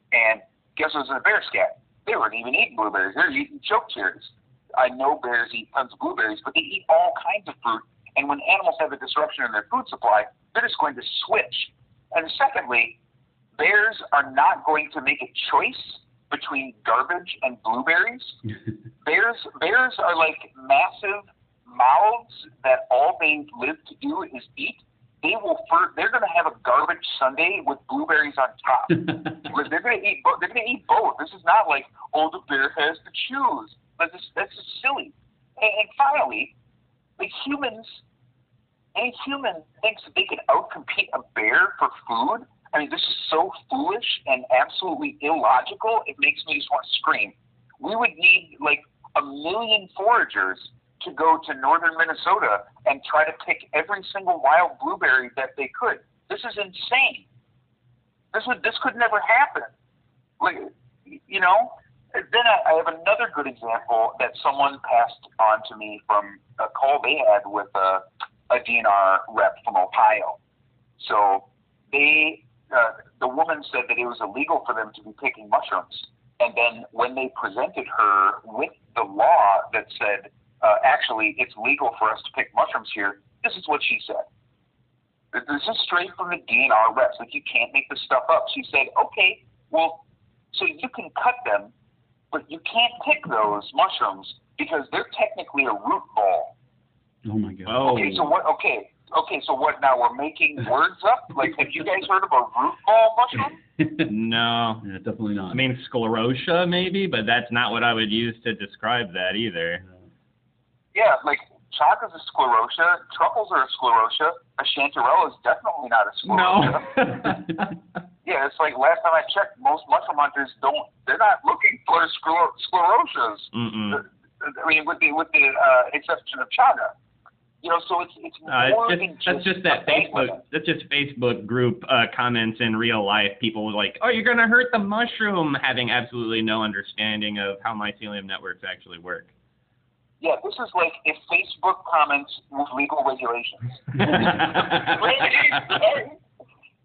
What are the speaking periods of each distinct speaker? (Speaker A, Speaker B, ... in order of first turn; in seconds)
Speaker A: 0.1-13.0, 13.6-18.4, 19.0-36.5, 37.2-38.0, 39.0-57.3, 58.3-59.7, 60.4-70.4, 71.0-84.3, 85.3-91.7, 92.3-96.5, 97.8-103.6, 110.9-117.1, 118.2-126.9, 127.6-130.4, 140.2-146.2
Speaker B: 97.2-98.1, 103.8-104.1, 104.8-105.6
Speaker C: 97.7-98.2, 104.0-104.8, 105.5-109.8, 116.3-117.7, 123.5-124.0, 128.5-139.3, 144.0-145.8